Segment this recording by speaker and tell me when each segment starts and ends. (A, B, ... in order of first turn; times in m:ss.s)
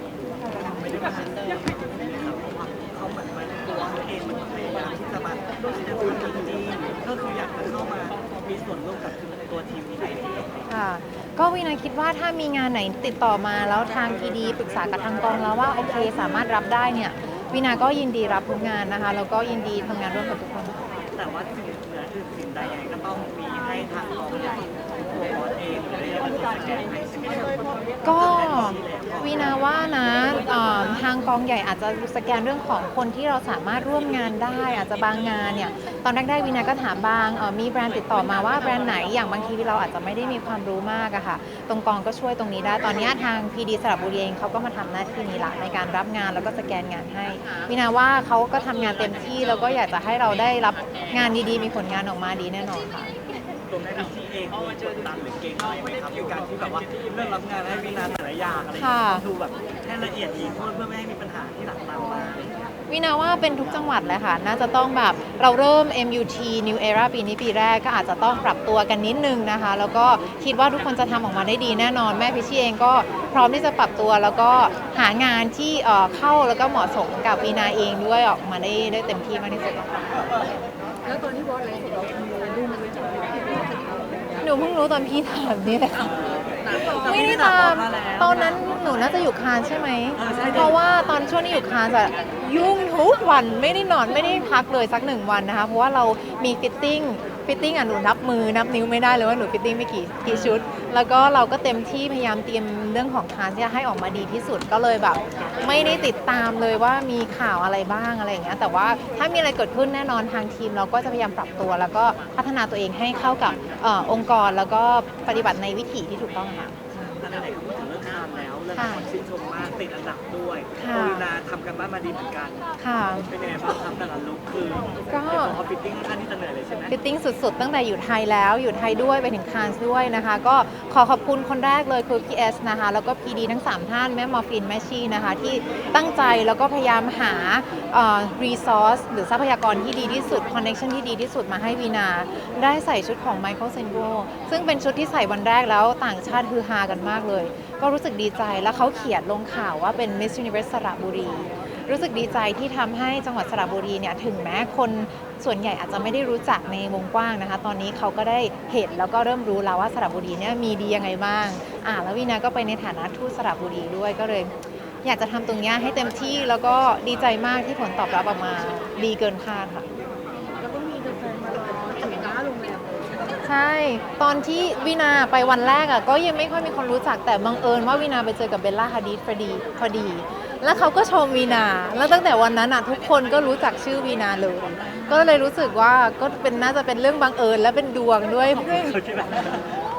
0:00.4-0:10.7 A
0:10.7-0:20.8 B
0:21.1-0:29.6 A
0:28.0-0:53.1 B
0:53.7-1:02.5 A
0:58.8-0:59.2 B
1:02.9-1:20.4 B
1:21.0-1:24.4 C
1:24.4-1:26.1 B
1:26.0-1:29.1 A
1:26.7-1:57.2 B
1:30.1-1:30.8 A
1:40.2-1:40.7 A
1:57.2-2:06.9 A
1:58.7-1:59.0 B
2:00.8-2:01.3 B
2:02.8-2:03.3 B
2:05.1-2:05.6 B
2:06.9-2:44.5 B
2:45.0-2:49.9 B
2:50.6-2:53.0 C
2:53.4-3:09.0 B
3:04.7-3:05.4 A
3:08.4-3:09.8 A